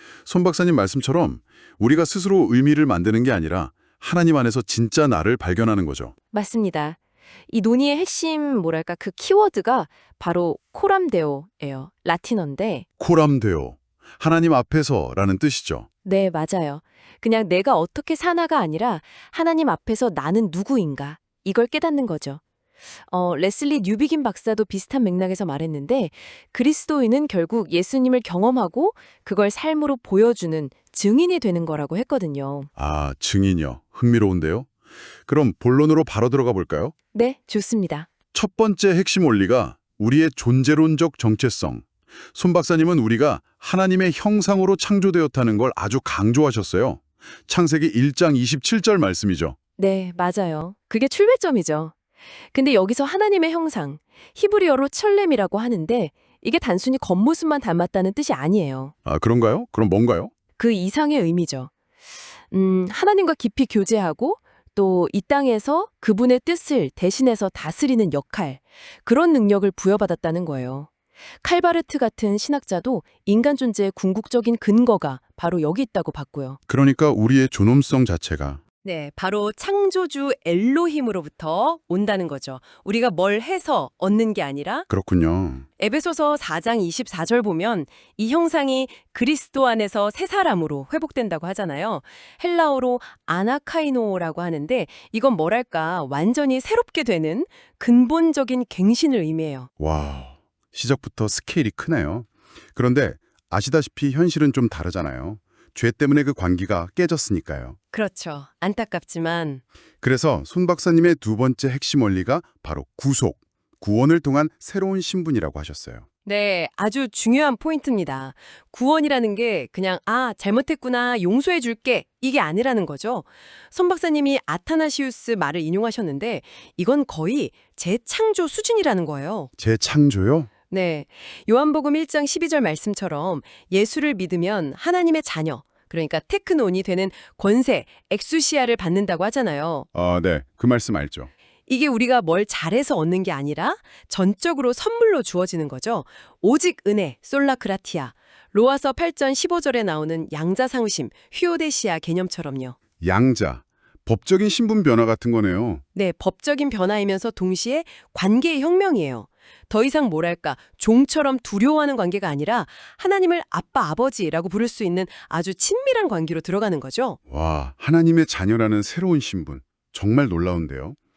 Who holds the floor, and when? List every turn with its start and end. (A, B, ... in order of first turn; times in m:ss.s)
0:00.2-0:06.1 A
0:06.3-0:07.0 B
0:07.5-0:12.8 B
0:13.0-0:15.9 A
0:16.0-0:22.4 B
0:23.1-0:32.7 B
0:32.8-0:34.7 A
0:35.2-0:36.9 A
0:37.1-0:38.1 B
0:38.3-0:49.6 A
0:49.8-0:51.9 B
0:52.5-0:58.9 B
0:59.0-1:00.3 A
1:00.6-1:01.7 B
1:02.5-1:10.9 B
1:11.4-1:16.6 B
1:16.7-1:18.6 A
1:18.8-1:24.9 B
1:24.9-1:25.6 A
1:25.8-1:39.7 B
1:39.8-1:47.8 A
1:47.9-1:49.6 B
1:50.0-1:56.0 A
1:56.2-2:09.5 B
2:09.6-2:10.5 A
2:10.7-2:19.9 B
2:19.9-2:21.3 A
2:21.7-2:32.8 B
2:33.0-2:35.8 A
2:35.9-2:47.2 B
2:47.3-2:51.0 A